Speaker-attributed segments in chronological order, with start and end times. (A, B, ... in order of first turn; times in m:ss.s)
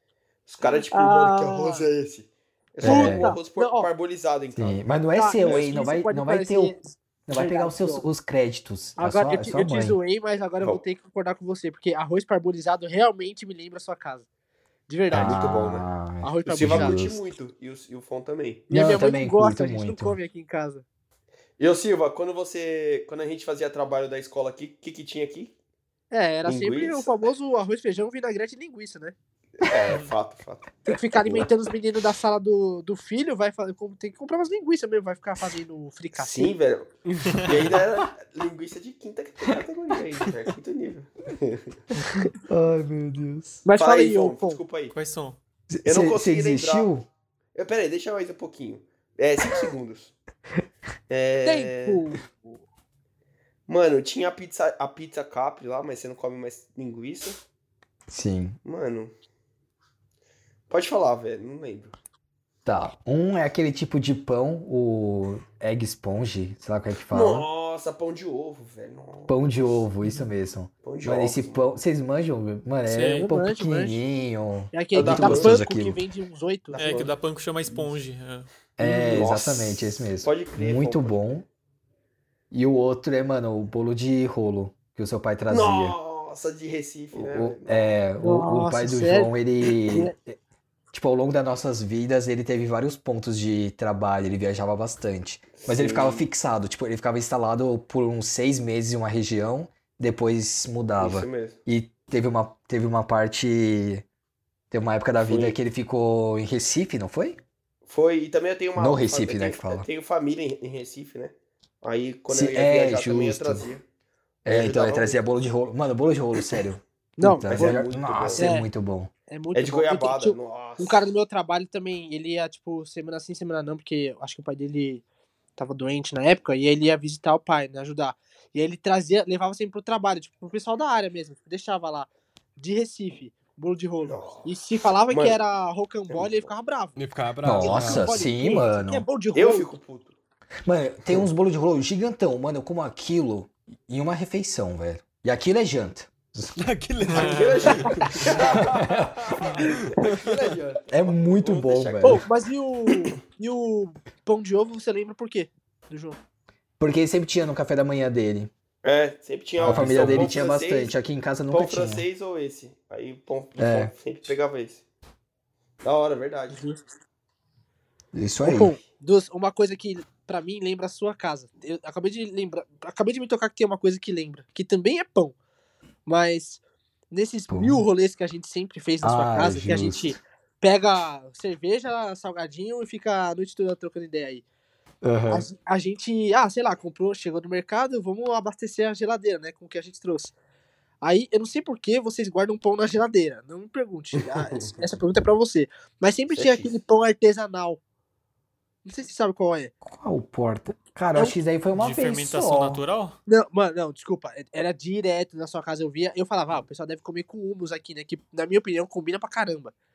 0:00.5-0:04.8 A
0:00.6-0:01.9 B
0:02.8-0:03.9 B
0:02.8-0:03.3 C
0:04.6-0:06.8 C
0:05.2-0:08.1 B
0:05.4-0:05.7 A
0:07.3-0:10.0 C
0:09.0-0:14.3 B
0:14.9-0:15.6 B
0:15.1-0:15.9 A
0:15.1-0:17.2 C
0:16.2-0:17.0 B
0:16.5-0:18.7 A
0:18.7-0:20.2 C
0:18.7-0:20.8 B
0:21.6-0:25.5 A
0:26.1-0:29.2 B
0:26.4-0:27.1 A
0:29.6-0:31.5 A
0:30.8-0:36.5 B
0:36.2-0:41.8 A
0:37.1-0:37.8 D
0:42.4-0:43.6 C
0:43.6-0:44.6 B
0:43.8-0:44.9 A
0:44.9-0:45.4 E
0:45.7-0:47.1 C
0:45.8-0:46.9 A
0:47.6-0:50.2 A
0:51.1-0:52.0 A
0:51.4-0:52.6 B
0:53.7-0:57.4 A
0:58.1-0:58.6 C
0:58.6-0:59.1 A
1:00.7-1:02.0 A
1:02.6-1:07.5 C
1:07.1-1:09.4 A
1:09.3-1:16.0 C
1:10.8-1:11.6 A
1:12.9-1:13.3 E
1:13.1-1:14.0 B
1:14.7-1:17.1 B
1:14.9-1:15.7 A
1:16.7-1:17.1 A
1:16.8-1:18.5 E
1:18.8-1:21.5 C
1:18.8-1:21.2 A
1:22.5-1:26.0 C
1:25.5-1:27.9 A
1:27.1-1:30.4 C
1:28.2-1:29.3 B
1:29.9-1:30.1 B
1:30.9-1:44.0 C
1:35.6-1:36.3 A
1:41.0-1:41.6 A
1:44.7-1:47.4 C
1:45.2-1:45.6 A
1:47.9-1:53.8 A
1:48.8-1:49.9 C
1:52.3-1:53.7 C
1:54.4-1:59.1 C
1:54.5-1:55.2 A
1:57.2-1:57.8 B
1:57.4-1:58.5 A
1:58.4-1:58.7 B
1:59.3-2:05.0 B
1:59.5-2:01.0 A
2:05.6-2:17.0 B
2:14.0-2:14.6 A
2:15.1-2:15.4 A
2:16.1-2:16.5 A
2:17.0-2:18.1 D
2:17.4-2:19.1 C
2:17.6-2:19.7 B
2:19.3-2:20.2 A
2:20.7-2:26.6 C
2:26.6-2:28.8 D
2:27.1-2:27.8 E
2:27.2-2:32.2 A
2:28.4-2:29.4 C
2:29.6-2:30.3 D
2:30.9-2:32.2 C
2:32.0-2:36.2 B
2:36.8-2:38.5 C
2:38.8-2:40.9 A
2:39.6-2:42.1 C
2:39.6-2:40.3 D
2:41.5-2:44.8 A
2:43.6-2:43.9 C
2:45.8-2:46.6 A
2:46.5-2:46.8 B
2:48.1-2:48.8 C
2:48.4-2:55.4 B
2:56.1-3:04.4 B
2:57.5-2:57.8 C
2:59.0-3:00.2 C
3:05.0-3:05.5 C
3:05.3-3:10.3 B
3:11.0-3:17.8 B
3:14.2-3:14.8 A
3:16.3-3:16.8 A
3:18.8-3:19.7 B
3:19.8-3:22.8 C
3:21.7-3:23.2 E
3:23.3-3:29.7 B